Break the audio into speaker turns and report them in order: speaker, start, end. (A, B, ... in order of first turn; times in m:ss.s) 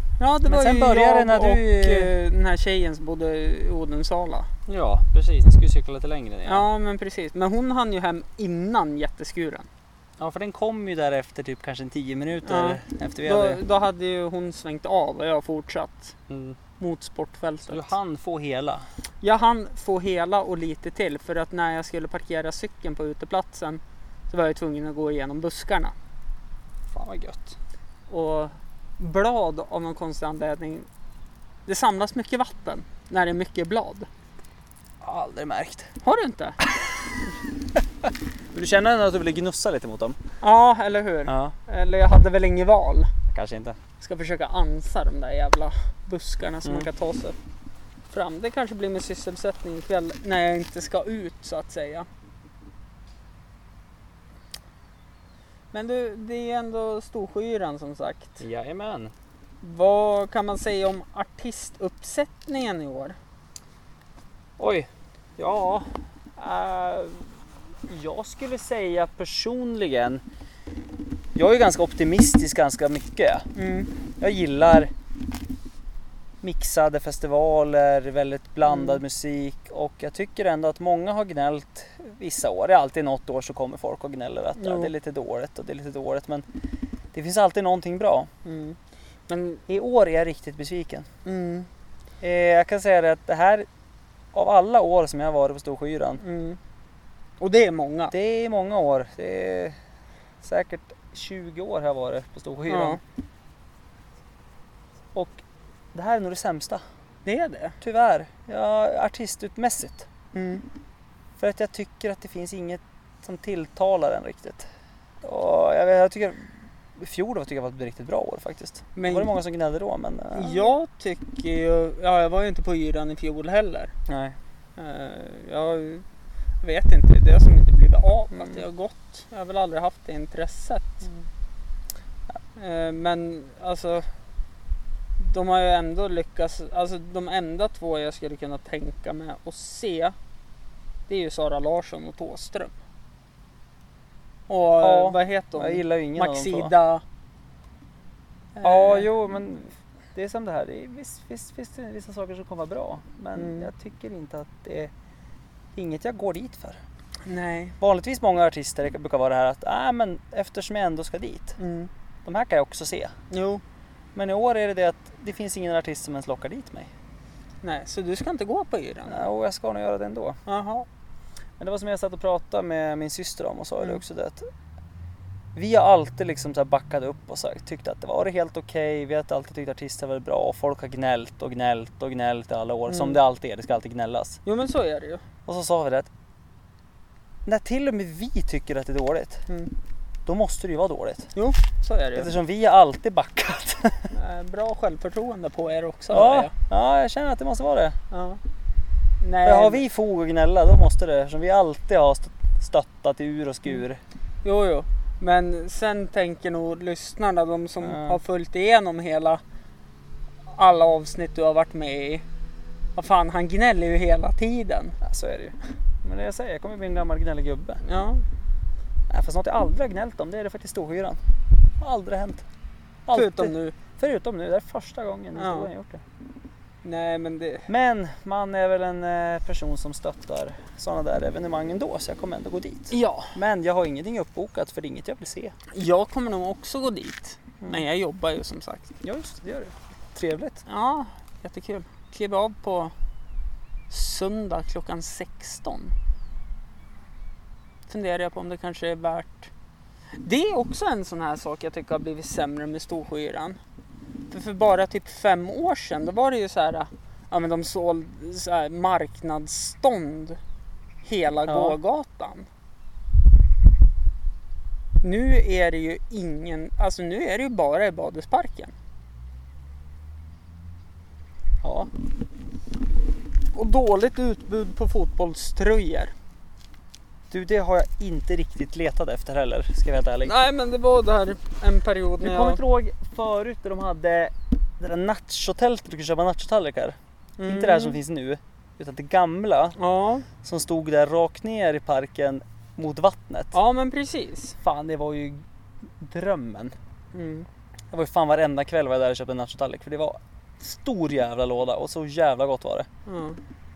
0:00.2-0:04.5 A
0:00.4-0:02.1 B
0:04.7-0:06.7 B
0:06.4-0:09.7 A
0:10.2-0:13.6 B
0:12.4-0:16.1 A
0:16.3-0:16.6 B
0:16.8-0:17.9 A
0:17.7-0:18.8 B
0:19.2-0:25.9 A
0:26.9-0:27.6 B
0:28.1-0:30.9 A
0:31.6-0:34.1 A
0:35.0-0:35.9 B
0:36.0-0:36.6 A
0:38.5-0:40.2 B
0:40.4-0:43.1 A
0:41.3-0:41.5 B
0:43.3-0:43.8 B
0:44.0-0:47.4 A
0:46.6-0:46.9 B
0:48.1-0:52.1 A
0:55.7-0:58.4 A
0:58.4-0:59.1 B
0:59.6-1:03.2 A
1:04.6-1:10.2 B
1:11.3-1:13.5 B
1:13.5-1:13.9 A
1:14.2-1:14.9 B
1:16.4-1:26.4 B
1:18.6-1:19.0 A
1:24.6-1:24.9 A
1:27.1-1:28.3 B
1:28.4-1:28.8 A
1:29.3-1:29.6 A
1:29.7-1:31.1 B
1:31.2-1:31.7 A
1:32.2-1:33.7 B
1:34.3-1:36.2 B
1:36.2-1:36.6 A
1:37.4-1:38.1 A
1:38.1-1:39.8 B
1:40.4-1:43.0 B
1:42.7-1:43.0 A
1:45.1-1:45.4 B
1:45.9-1:46.8 B
1:47.2-1:47.8 A
1:47.8-1:50.1 B
1:50.3-1:50.6 A
1:51.4-1:54.7 B
1:55.2-2:00.7 B
1:59.0-1:59.3 A
2:00.3-2:03.9 A
2:04.1-2:04.4 B
2:04.8-2:06.0 A
2:06.6-2:11.1 A
2:08.3-2:08.6 B
2:12.6-2:14.0 A
2:15.2-2:20.1 A
2:21.1-2:22.7 A
2:24.5-2:27.0 A
2:24.8-2:26.7 B
2:28.6-2:29.1 A
2:28.6-2:34.9 B
2:33.4-2:33.7 A
2:35.7-2:36.8 B
2:37.2-2:37.8 A
2:37.8-2:41.6 B
2:41.6-2:41.9 A
2:42.2-2:43.1 B
2:43.3-2:43.6 A
2:44.1-2:46.9 B
2:47.6-2:49.3 A
2:49.1-2:50.4 B
2:50.4-2:50.8 A
2:51.6-2:54.5 B
2:55.5-3:04.4 B
3:02.9-3:03.2 A
3:04.4-3:05.2 A
3:05.4-3:06.1 B
3:07.4-3:09.4 B
3:10.2-3:11.3 B
3:11.3-3:12.3 A
3:12.1-3:14.1 B
3:14.1-3:16.5 A
3:16.1-3:18.0 B
3:18.1-3:18.4 A
3:19.2-3:19.8 A
3:19.4-3:24.0 B
3:24.4-3:29.4 A
3:27.8-3:28.2 B
3:30.5-3:32.2 A
3:33.0-3:35.0 A
3:35.0-3:37.8 B
3:37.8-3:38.2 A
3:39.1-3:41.2 B
3:41.8-3:42.4 B
3:43.0-3:46.0 B
3:43.1-3:43.8 A
3:45.3-3:45.7 A
3:46.8-3:47.7 A
3:47.7-3:55.5 B
3:52.9-3:53.4 A
3:55.7-3:58.9 A
3:59.0-4:00.6 B
4:00.6-4:02.9 A
4:03.9-4:05.9 A
4:07.9-4:09.5 A
4:10.2-4:13.6 A
4:14.3-4:20.4 A
4:21.0-4:22.5 A
4:21.5-4:21.8 B
4:25.0-4:28.7 A
4:31.6-4:31.9 B
4:33.5-4:36.1 A
4:37.3-4:40.3 B
4:40.2-4:42.6 A
4:42.2-4:49.8 B
4:47.4-4:48.0 A
4:49.8-4:50.3 A
4:50.4-4:53.5 B
4:53.5-4:54.6 A
4:54.6-4:55.4 B
4:56.0-4:56.7 B
4:57.1-4:57.5 A
4:57.9-5:02.9 B
5:03.0-5:03.4 A